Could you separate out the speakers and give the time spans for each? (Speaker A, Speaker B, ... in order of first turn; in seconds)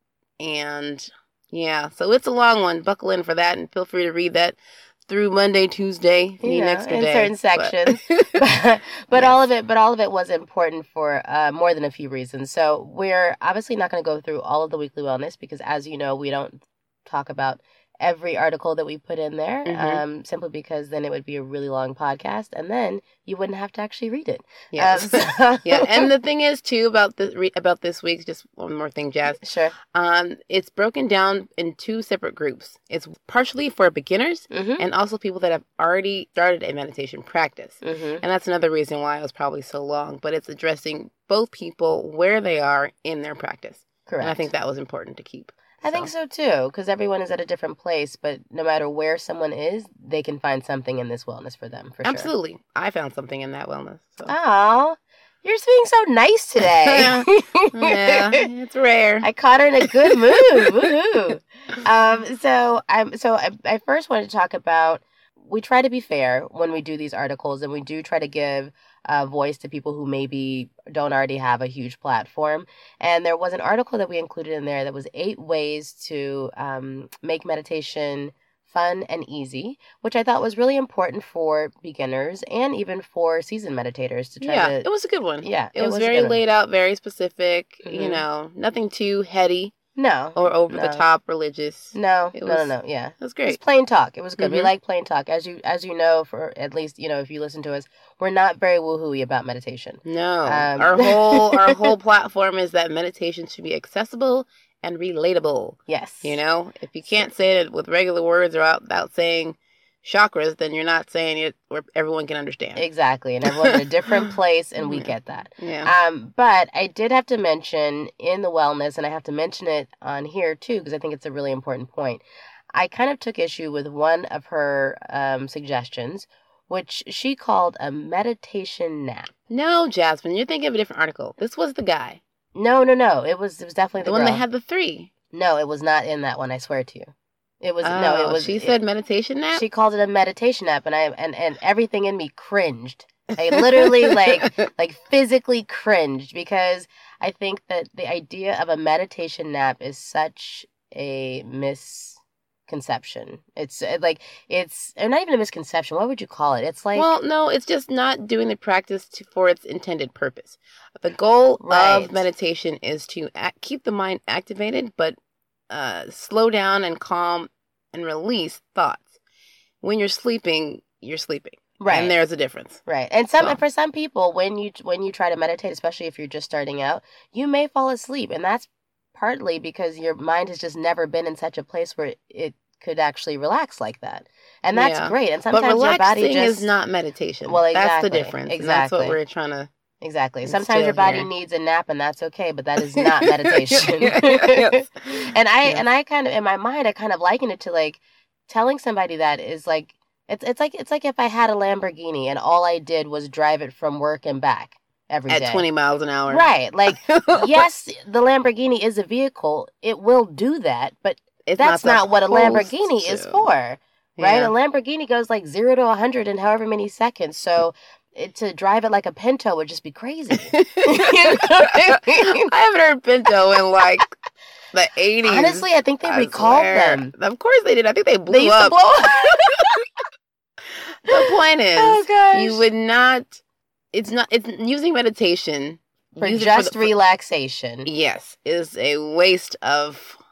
Speaker A: 0.4-8.4, 9.1-9.4, 19.6-20.0, 24.7-29.4, 29.9-46.1, 52.0-54.3, 56.6-59.3, 59.8-60.9, 84.4-89.7, 90.3-93.6, 94.4-94.7, 100.0-112.8, 113.6-114.3, 114.8-115.9, 129.5-132.2, 134.0-135.1, 137.8-139.6, 143.6-144.5, 156.9-165.2, 165.7-169.2, 169.8-172.8, 184.7-189.7, 190.4-191.3, 192.9-195.8, 205.3-207.7, 211.4-213.5, 214.2-214.5, 220.3-224.1, 224.7-228.9, 231.1-233.4, 233.9-236.9, 237.8-240.2
Speaker B: 6.4-26.1, 29.3-29.7, 34.5-34.9, 37.8-38.2, 44.1-44.5, 45.8-52.3, 54.3-58.5, 59.2-84.8, 85.4-86.4, 87.8-88.2, 90.0-91.0, 91.9-101.9, 105.9-106.4, 112.8-122.2, 122.7-129.3, 132.5-134.4, 135.3-138.7, 139.5-157.1, 161.6-162.2, 171.8-172.2, 172.8-186.7, 187.4-189.2, 190.0-205.6, 206.3-222.5, 225.2-227.1, 228.3-229.8, 231.1-232.7, 236.2-237.9